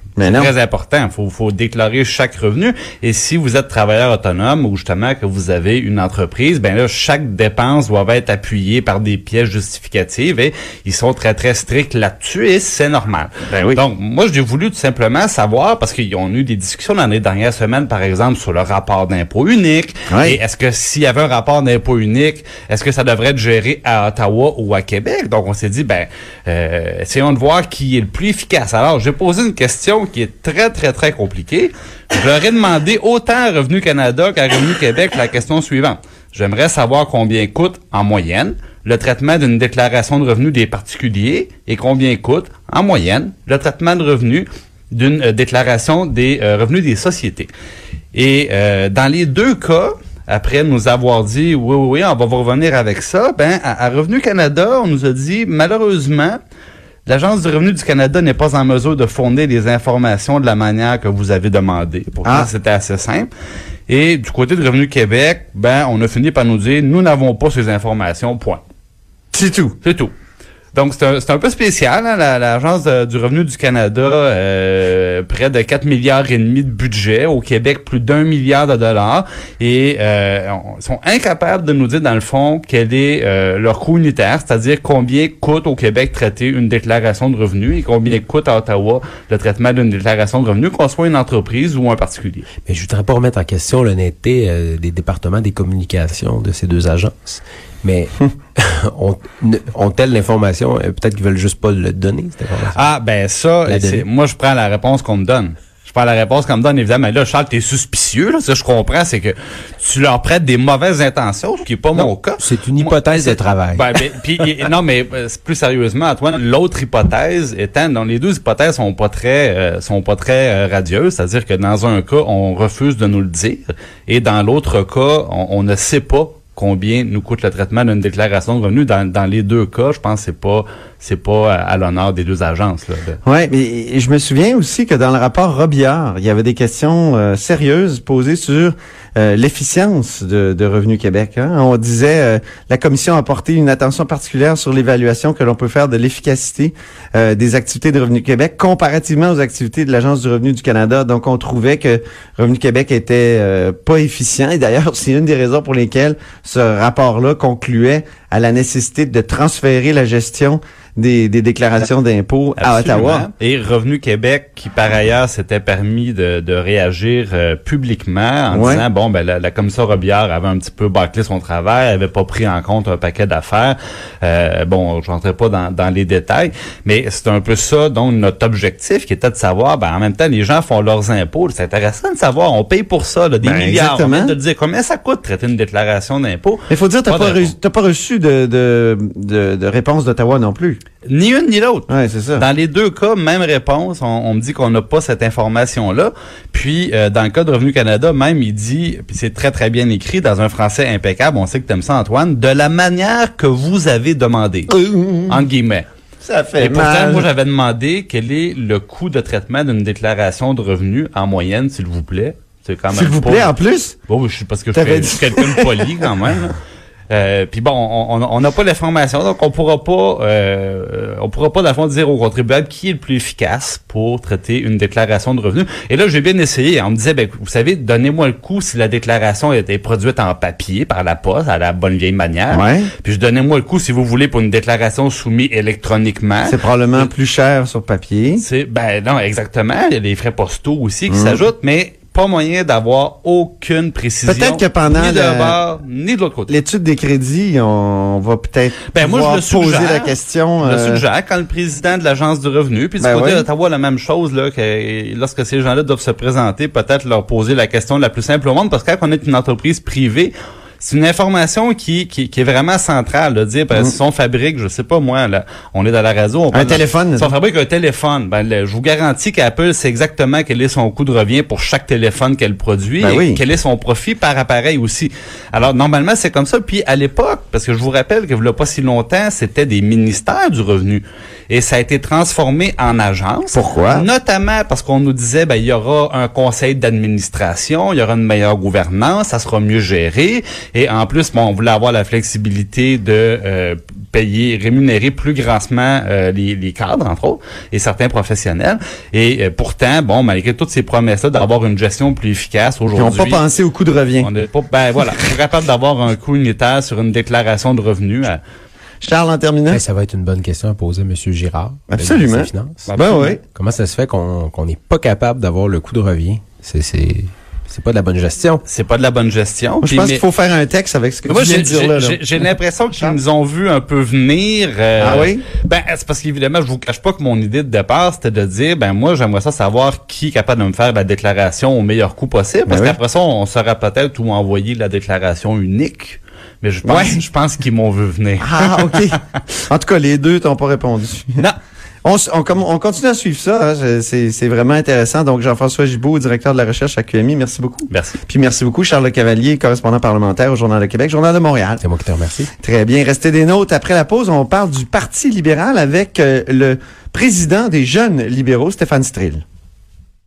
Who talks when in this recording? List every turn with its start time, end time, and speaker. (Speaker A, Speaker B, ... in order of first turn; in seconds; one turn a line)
Speaker A: 0.2-0.5
Speaker B: 0.2-47.5
Speaker A: 13.5-13.8
Speaker A: 20.1-20.4
Speaker B: 48.1-56.4
Speaker B: 57.1-63.3
Speaker A: 62.2-62.5
Speaker B: 63.9-68.6
Speaker A: 69.3-69.8
Speaker B: 69.8-70.1
Speaker B: 70.7-92.5
Speaker C: 92.7-102.9
Speaker B: 102.7-133.2
Speaker C: 103.7-104.1
Speaker C: 112.0-114.6
Speaker A: 133.2-163.3
Speaker B: 162.6-187.5
Speaker A: 168.5-168.8
Speaker A: 183.4-184.3
Speaker A: 186.7-190.8
Speaker B: 191.1-204.7
Speaker A: 191.9-192.4
Speaker A: 204.7-205.4
Speaker B: 205.3-205.9
Speaker A: 206.2-207.3
Speaker B: 206.6-213.5
Speaker A: 212.9-214.0
Speaker B: 214.1-216.6
Speaker A: 214.7-216.0
Speaker B: 217.1-237.1
Speaker A: 232.5-232.9
Speaker A: 236.5-238.4
Speaker B: 238.4-246.5
Speaker A: 241.1-241.4
Speaker A: 244.2-245.6
Speaker A: 246.5-251.0
Speaker B: 248.9-303.4
Speaker A: 253.0-253.5
Speaker A: 266.5-267.3
Speaker A: 273.0-273.4
Speaker A: 283.5-284.1
Speaker A: 302.9-304.3
Speaker B: 304.2-308.4
Speaker A: 309.0-309.8
Speaker C: 309.7-312.9
Speaker A: 311.9-313.4
Speaker B: 312.9-313.4
Speaker C: 313.5-318.6
Speaker B: 318.6-320.2
Speaker A: 319.8-322.4
Speaker B: 321.3-339.0
Speaker A: 325.0-325.4
Speaker A: 332.7-333.0
Speaker A: 336.9-337.2
Speaker A: 338.4-341.5
Speaker A: 342.0-351.8
Speaker B: 347.9-348.2
Speaker C: 351.8-352.5
Speaker A: 352.6-359.4